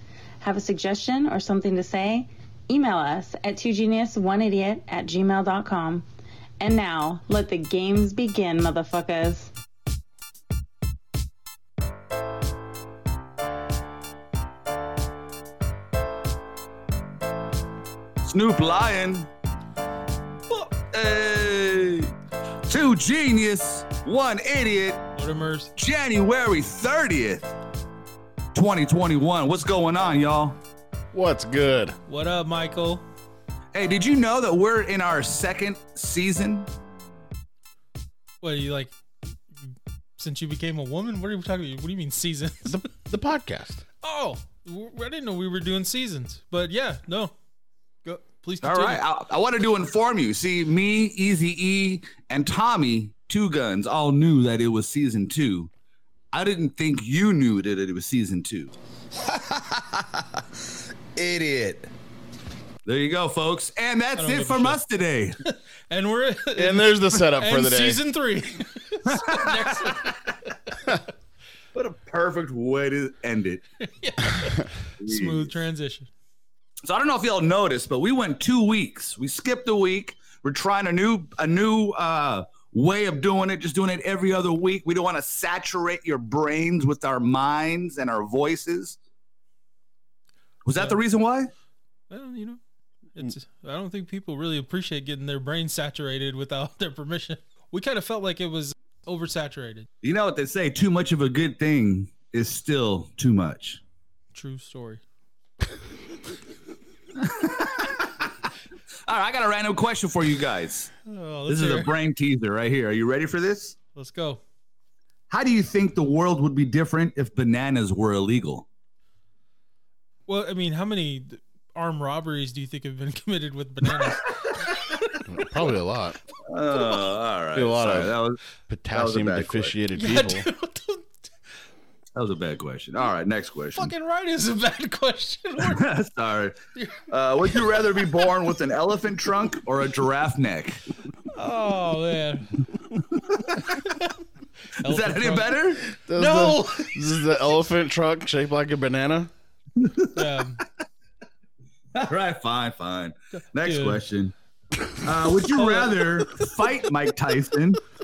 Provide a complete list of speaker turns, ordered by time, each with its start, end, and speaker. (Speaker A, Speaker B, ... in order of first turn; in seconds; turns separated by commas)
Speaker A: 0.4-6.0, Speaker A: 6.6-9.5, Speaker B: 18.2-19.3, Speaker B: 20.9-22.1, Speaker B: 22.7-25.1, Speaker C: 25.1-25.7, Speaker B: 25.8-27.5, Speaker B: 28.5-30.6, Speaker D: 31.1-32.0, Speaker C: 32.1-33.0, Speaker B: 33.7-36.7, Speaker C: 38.4-38.9, Speaker C: 40.2-42.8, Speaker D: 42.6-43.8, Speaker C: 44.0-47.3, Speaker C: 48.0-49.0, Speaker B: 48.6-55.7, Speaker B: 56.3-60.4, Speaker B: 61.1-61.9, Speaker B: 62.8-65.4, Speaker C: 64.2-64.8, Speaker C: 65.4-71.0, Speaker D: 66.5-68.0, Speaker B: 69.1-70.2, Speaker B: 71.7-73.6, Speaker C: 73.8-76.1, Speaker B: 75.0-75.5, Speaker B: 76.8-89.0, Speaker B: 90.6-91.5, Speaker C: 92.1-92.6, Speaker C: 93.1-99.9, Speaker B: 100.0-103.8, Speaker C: 104.3-105.0, Speaker B: 107.2-108.3, Speaker B: 109.0-110.9, Speaker C: 111.0-111.9, Speaker B: 111.5-113.8, Speaker C: 113.9-114.4, Speaker B: 115.3-118.7, Speaker C: 120.3-124.8, Speaker B: 124.0-124.5, Speaker D: 125.2-126.2, Speaker B: 126.5-128.4, Speaker C: 126.7-127.0, Speaker D: 127.5-130.5, Speaker B: 128.9-129.7, Speaker C: 129.9-131.2, Speaker B: 132.1-133.9, Speaker C: 133.7-135.9, Speaker B: 135.6-136.6, Speaker C: 136.8-138.2, Speaker B: 137.1-140.8, Speaker C: 141.3-142.6, Speaker B: 143.2-143.6, Speaker C: 143.5-144.2, Speaker C: 144.8-147.2, Speaker B: 144.8-145.8, Speaker D: 145.9-149.3, Speaker B: 149.8-150.1, Speaker C: 150.1-150.6, Speaker B: 151.9-154.3, Speaker C: 153.3-154.0, Speaker B: 155.0-157.8, Speaker C: 155.5-156.4